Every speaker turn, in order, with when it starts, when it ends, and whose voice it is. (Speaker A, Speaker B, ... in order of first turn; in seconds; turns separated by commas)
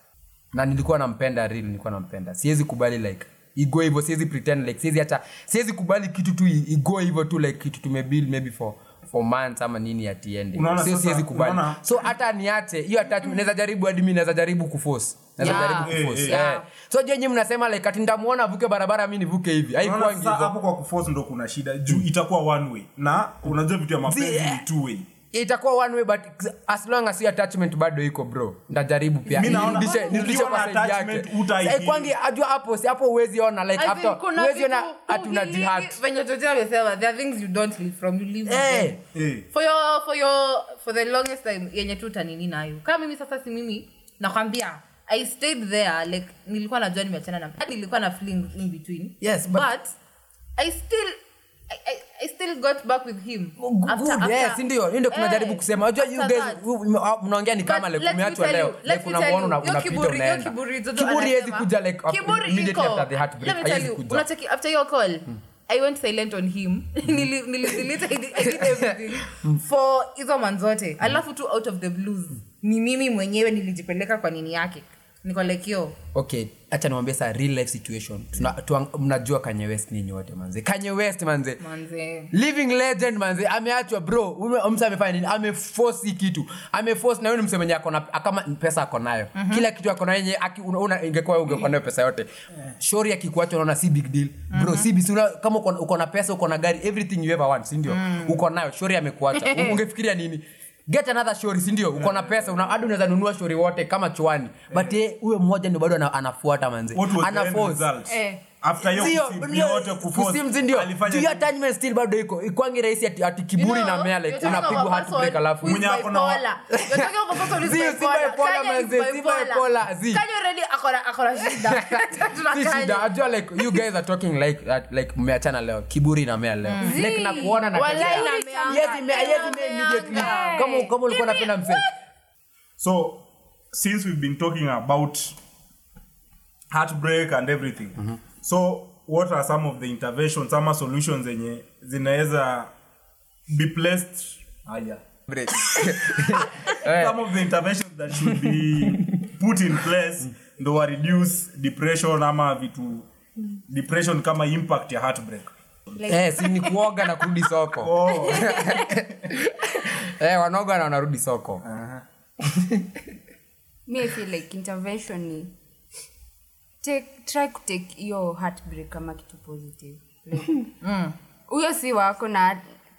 Speaker A: 0.5-20.5, Speaker B: 10.5-11.8, Speaker C: 15.4-16.6, Speaker B: 15.4-16.4, Speaker B: 19.8-25.1, Speaker A: 24.1-24.6, Speaker A: 25.3-36.0, Speaker B: 29.3-32.1, Speaker C: 29.4-30.1, Speaker C: 33.8-38.9, Speaker A: 38.5-39.0, Speaker B: 39.1-39.5, Speaker C: 39.5-49.9, Speaker A: 49.2-49.7, Speaker C: 50.6-51.2, Speaker C: 51.7-56.6, Speaker A: 53.6-64.2, Speaker C: 57.6-76.0, Speaker A: 68.5-68.8, Speaker A: 76.1-81.6, Speaker C: 81.6-82.3, Speaker A: 82.3-107.9, Speaker C: 89.3-89.7, Speaker C: 94.5-94.9, Speaker C: 97.9-98.3, Speaker C: 99.3-99.8, Speaker B: 106.9-111.5, Speaker C: 108.1-108.4, Speaker A: 108.8-115.8, Speaker C: 113.5-123.1, Speaker B: 115.6-116.4, Speaker A: 116.7-120.2, Speaker A: 121.6-131.8, Speaker C: 126.7-131.9, Speaker D: 126.8-130.9, Speaker B: 132.8-135.3, Speaker B: 136.7-142.7, Speaker B: 143.5-145.0, Speaker A: 145.3-147.2, Speaker B: 145.8-153.1, Speaker A: 148.2-149.0, Speaker B: 153.7-155.5, Speaker D: 155.9-157.0, Speaker A: 156.1-161.6, Speaker B: 157.8-158.8, Speaker D: 158.5-158.8, Speaker B: 161.6-162.0, Speaker A: 162.4-163.0, Speaker D: 163.8-165.5, Speaker D: 166.8-170.7, Speaker C: 170.8-171.1, Speaker D: 171.5-172.6